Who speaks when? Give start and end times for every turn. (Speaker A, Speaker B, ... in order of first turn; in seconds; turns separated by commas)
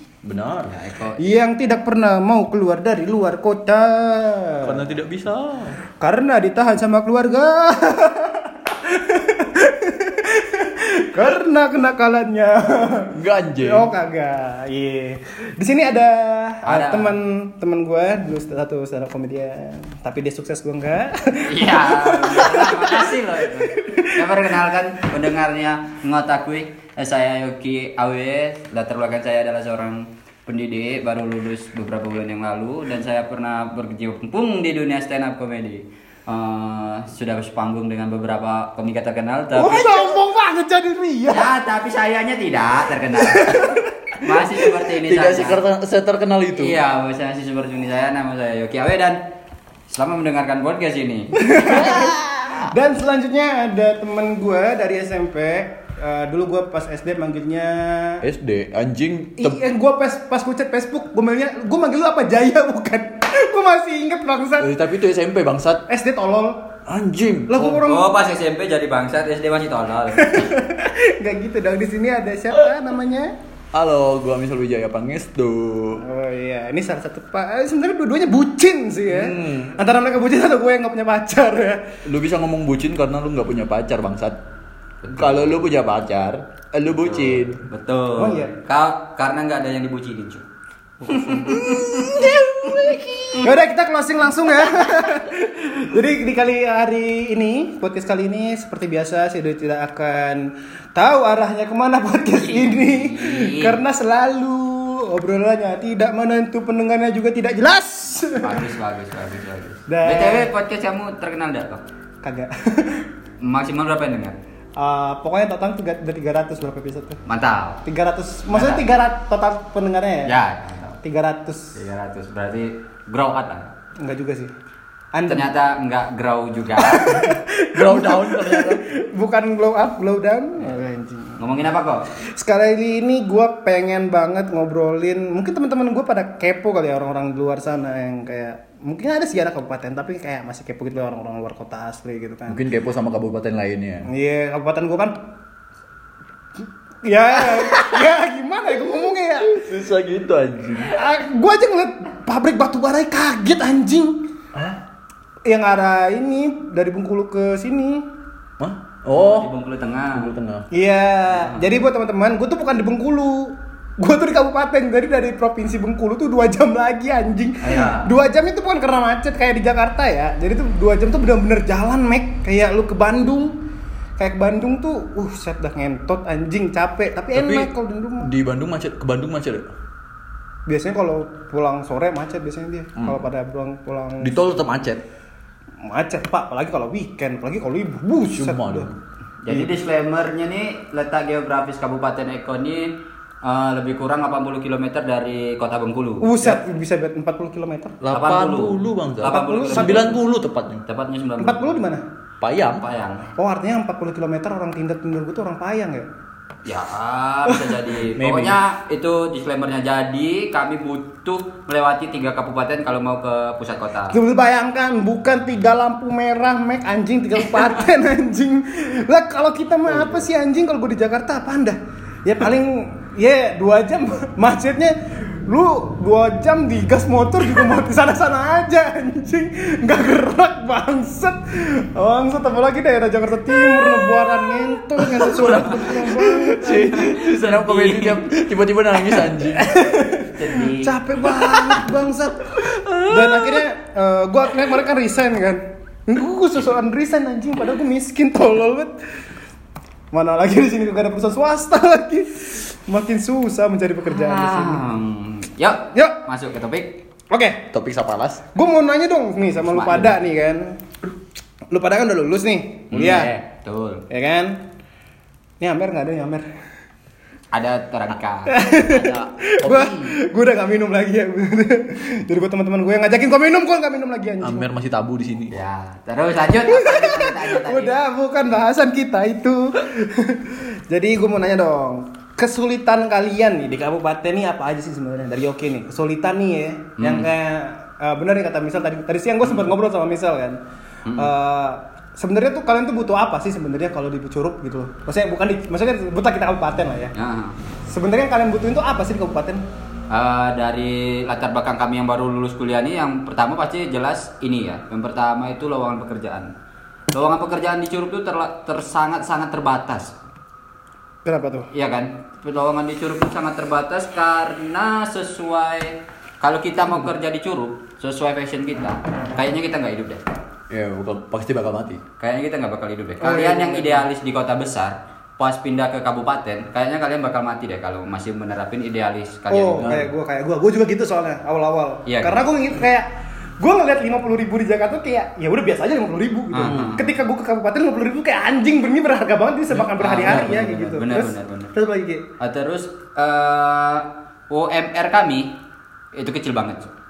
Speaker A: 0.2-0.8, Speaker B: 0.7-1.2, Speaker C: 1.2-4.8, Speaker A: 4.6-5.8, Speaker C: 6.0-24.6, Speaker A: 13.1-13.9, Speaker B: 16.6-17.1, Speaker B: 21.4-40.0, Speaker C: 39.5-41.5, Speaker B: 41.3-45.6, Speaker C: 43.2-43.9, Speaker A: 45.0-46.8, Speaker B: 46.6-49.2, Speaker B: 49.9-52.0, Speaker C: 51.3-58.2, Speaker A: 51.9-52.7, Speaker A: 58.2-59.6, Speaker C: 59.4-64.8, Speaker A: 64.6-65.8, Speaker C: 65.9-66.8, Speaker A: 66.8-67.7, Speaker C: 67.5-68.3, Speaker B: 67.7-70.5, Speaker C: 70.1-73.3, Speaker A: 73.7-76.0, Speaker C: 76.0-82.0, Speaker A: 79.1-79.8, Speaker A: 82.0-84.4, Speaker B: 85.0-85.5, Speaker A: 85.2-87.6, Speaker B: 86.9-90.4, Speaker C: 88.2-88.5, Speaker C: 91.0-92.2, Speaker B: 91.1-93.4, Speaker A: 91.6-93.1, Speaker C: 93.4-108.7, Speaker B: 102.4-103.8, Speaker B: 108.4-111.8, Speaker C: 109.9-110.5, Speaker C: 112.2-113.1, Speaker B: 113.4-114.4, Speaker C: 114.8-117.2, Speaker B: 117.2-117.8, Speaker C: 117.8-120.3, Speaker B: 118.5-118.9, Speaker B: 120.2-121.0, Speaker C: 121.0-121.7, Speaker B: 121.7-123.7, Speaker C: 124.0-124.5, Speaker C: 125.1-125.5, Speaker B: 125.3-127.3, Speaker C: 126.8-131.4, Speaker A: 127.2-128.9, Speaker B: 131.4-132.1, Speaker C: 132.1-142.6, Speaker A: 142.5-144.1, Speaker C: 144.1-145.1, Speaker C: 147.0-149.6, Speaker A: 149.5-151.0, Speaker C: 150.8-154.3, Speaker C: 155.4-158.1, Speaker A: 158.6-159.5, Speaker B: 159.1-160.3, Speaker A: 160.1-160.7, Speaker C: 160.7-173.6, Speaker B: 161.3-161.7, Speaker B: 167.6-168.1, Speaker C: 174.2-178.3, Speaker A: 177.3-179.7, Speaker C: 180.7-184.4, Speaker A: 184.2-185.0, Speaker C: 185.8-188.9, Speaker A: 188.3-189.0, Speaker B: 189.4-196.6, Speaker C: 196.2-198.0, Speaker A: 198.0-200.8, Speaker B: 198.1-200.1, Speaker C: 199.2-200.1, Speaker B: 200.9-201.8, Speaker C: 201.4-202.0, Speaker A: 202.4-202.8, Speaker B: 202.8-203.3, Speaker C: 203.3-206.1, Speaker B: 206.6-214.2, Speaker A: 208.2-208.6, Speaker C: 214.1-237.0, Speaker A: 233.6-239.9, Speaker B: 236.8-238.3, Speaker C: 239.1-249.0, Speaker B: 240.2-241.0, Speaker A: 241.2-241.9, Speaker A: 242.5-243.7, Speaker C: 250.1-254.9, Speaker B: 254.1-257.0, Speaker C: 255.9-256.2, Speaker C: 257.3-257.6, Speaker A: 257.7-258.4, Speaker C: 258.5-260.8, Speaker B: 259.6-260.2, Speaker C: 261.7-263.4, Speaker B: 262.9-264.1, Speaker C: 264.1-264.6, Speaker C: 265.6-266.5, Speaker B: 267.5-269.8, Speaker C: 268.4-274.6, Speaker A: 269.6-270.0, Speaker A: 274.4-275.5, Speaker B: 275.5-277.9, Speaker C: 276.7-290.6, Speaker B: 287.0-287.3, Speaker B: 289.4-289.7, Speaker B: 291.0-291.3, Speaker C: 291.1-297.1, Speaker B: 297.1-297.6, Speaker C: 297.9-299.6, Speaker B: 300.1-306.5, Speaker B: 307.1-310.1, Speaker C: 311.2-311.7, Speaker B: 311.7-320.2, Speaker A: 320.7-322.0, Speaker B: 322.2-329.9, Speaker C: 323.2-324.1, Speaker C: 329.5-342.3, Speaker A: 329.8-330.1, Speaker B: 332.1-332.5, Speaker B: 336.5-337.1, Speaker B: 339.9-341.7, Speaker A: 340.2-340.6, Speaker B: 342.4-345.6, Speaker B: 346.1-346.9